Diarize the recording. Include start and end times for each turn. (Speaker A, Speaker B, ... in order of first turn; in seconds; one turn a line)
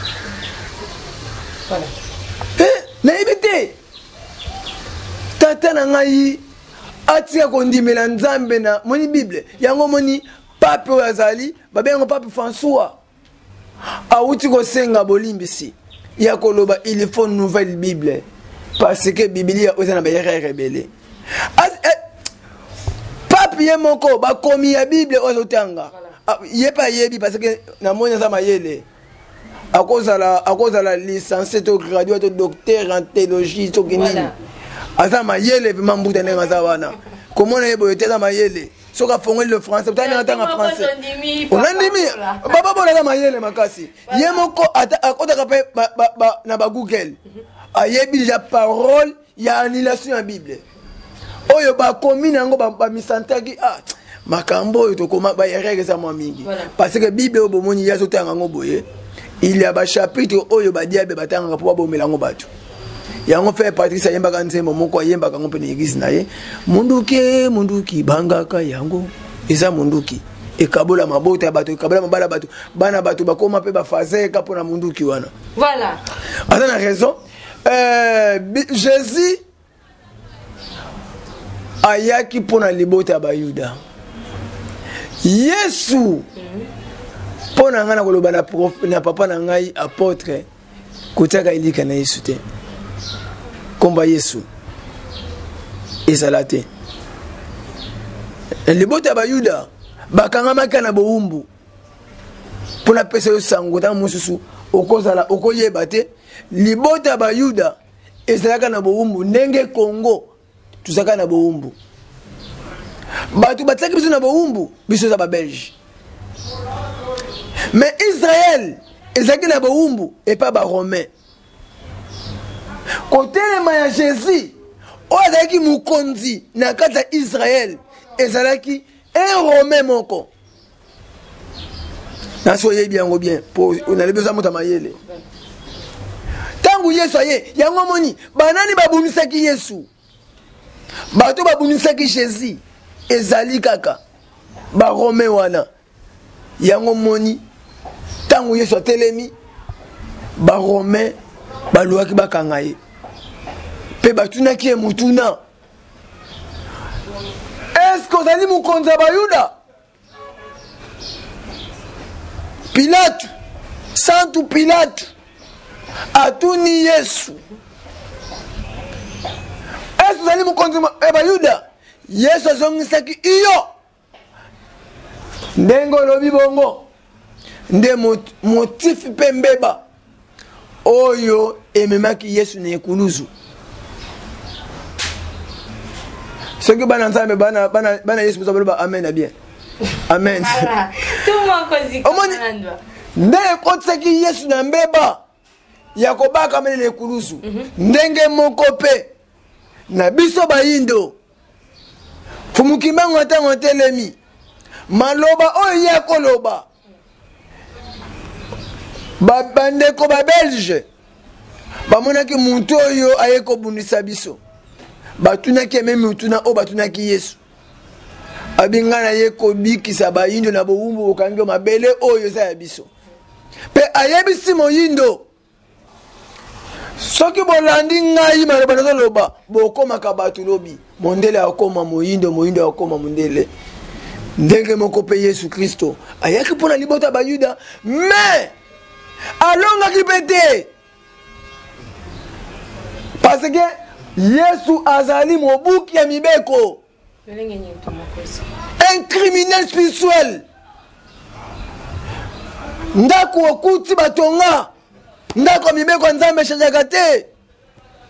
Speaker A: 2.6-3.8
Speaker A: 5.4-6.4
Speaker A: 7.1-13.0
Speaker A: 14.1-18.2
Speaker A: 18.8-20.9
Speaker A: 21.4-22.0
Speaker A: 23.3-28.8
Speaker A: 29.7-34.3
Speaker B: 33.9-34.3
Speaker A: 35.0-40.9
Speaker B: 40.0-42.4
Speaker A: 41.5-47.2
Speaker B: 44.1-44.4
Speaker A: 47.7-50.6
Speaker A: 51.5-58.8
Speaker B: 56.4-56.7
Speaker A: 59.4-62.5
Speaker A: 63.2-75.3
Speaker B: 75.5-76.0
Speaker A: 76.5-79.4
Speaker A: 81.8-83.8
Speaker A: 85.2-86.3
Speaker A: 87.5-90.5
Speaker A: 91.1-92.4
Speaker A: 93.8-94.5
Speaker A: 96.1-96.7
Speaker A: 98.7-101.5
Speaker A: 102.8-107.8
Speaker A: 108.3-110.3
Speaker A: 110.8-111.7
Speaker A: 113.3-115.7
Speaker A: 117.7-121.1
Speaker A: 123.1-124.5
Speaker A: 125.1-130.3
Speaker A: 132.4-135.0
Speaker A: 136.6-139.9
Speaker A: 141.1-144.0
Speaker A: 144.7-145.7
Speaker A: 146.6-147.4
Speaker A: 148.3-149.3
Speaker A: 150.4-151.1
Speaker A: 151.7-152.8
Speaker A: 154.0-155.4
Speaker A: 157.7-159.5
Speaker A: 162.7-163.3
Speaker A: 163.9-165.1
Speaker A: 166.1-167.4
Speaker A: 170.0-173.7
Speaker A: 175.6-176.8
Speaker A: 177.7-179.8
Speaker A: 180.8-183.3
Speaker A: 186.6-189.3
Speaker A: 190.1-190.7
Speaker B: 190.4-192.8
Speaker A: 192.0-192.4
Speaker A: 193.2-195.2
Speaker A: 195.9-199.1
Speaker A: 199.9-201.2
Speaker A: 202.5-204.2
Speaker A: 204.9-206.7
Speaker A: 209.2-210.8
Speaker A: 211.9-214.4
Speaker A: 215.2-217.4
Speaker A: 218.6-222.9
Speaker A: 223.7-225.2
Speaker A: 227.0-233.5
Speaker A: 234.4-238.5
Speaker A: 239.4-240.7
Speaker A: 243.2-246.8
Speaker B: 247.3-248.4
Speaker A: 248.8-250.4
Speaker A: 252.9-254.7
Speaker A: 255.3-257.3